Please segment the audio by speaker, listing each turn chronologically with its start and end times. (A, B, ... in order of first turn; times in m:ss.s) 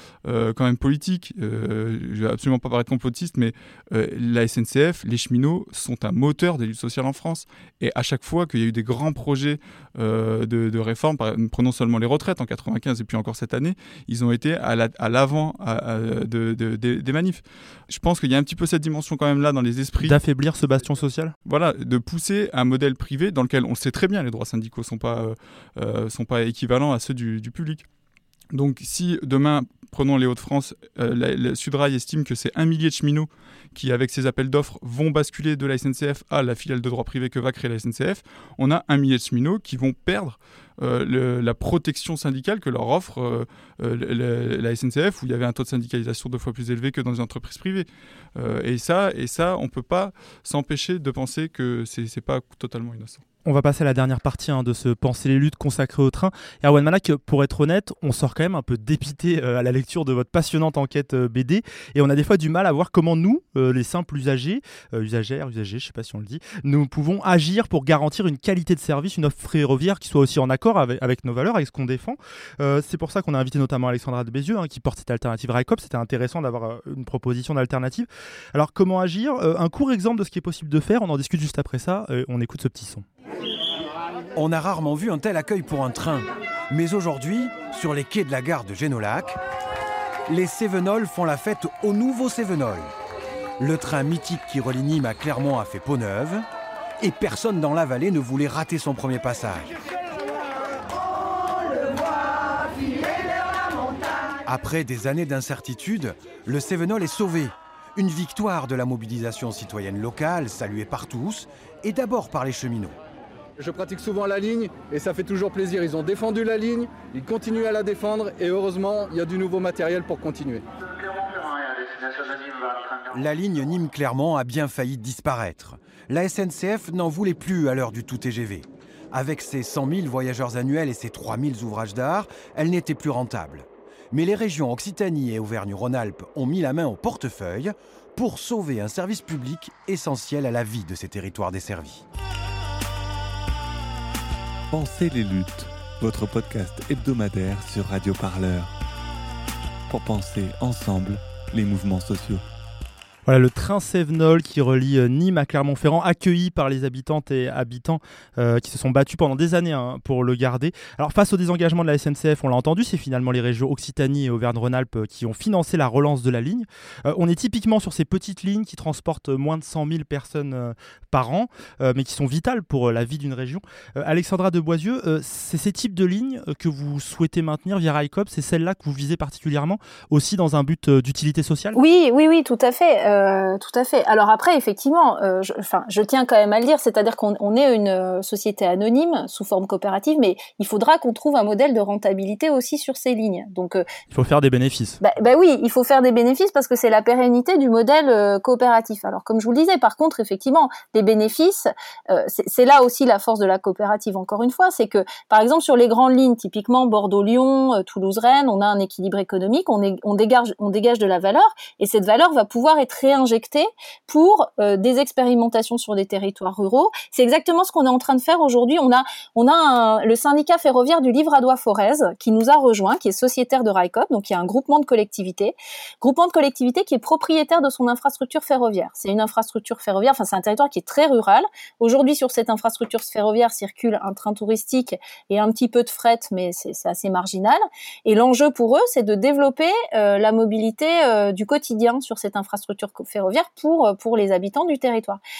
0:00.2-0:20.2 A
0:20.0-0:21.3 B
0:21.4-0:27.8 A
0:28.5-0:53.2 A
0:53.4-1:23.0 B
1:24.4-1:29.4 C
1:30.3-1:32.9 C
1:33.6-1:36.4 C
1:37.0-1:39.7 C
1:44.4-1:53.0 C
1:53.6-2:00.6 D
2:02.3-2:02.7 D
2:03.1-2:22.0 C
2:24.7-2:28.7 E
2:29.9-2:32.4 E
2:33.2-3:01.8 B
3:01.7-3:13.8 F
3:14.1-3:15.0 B
3:15.0-4:05.2 F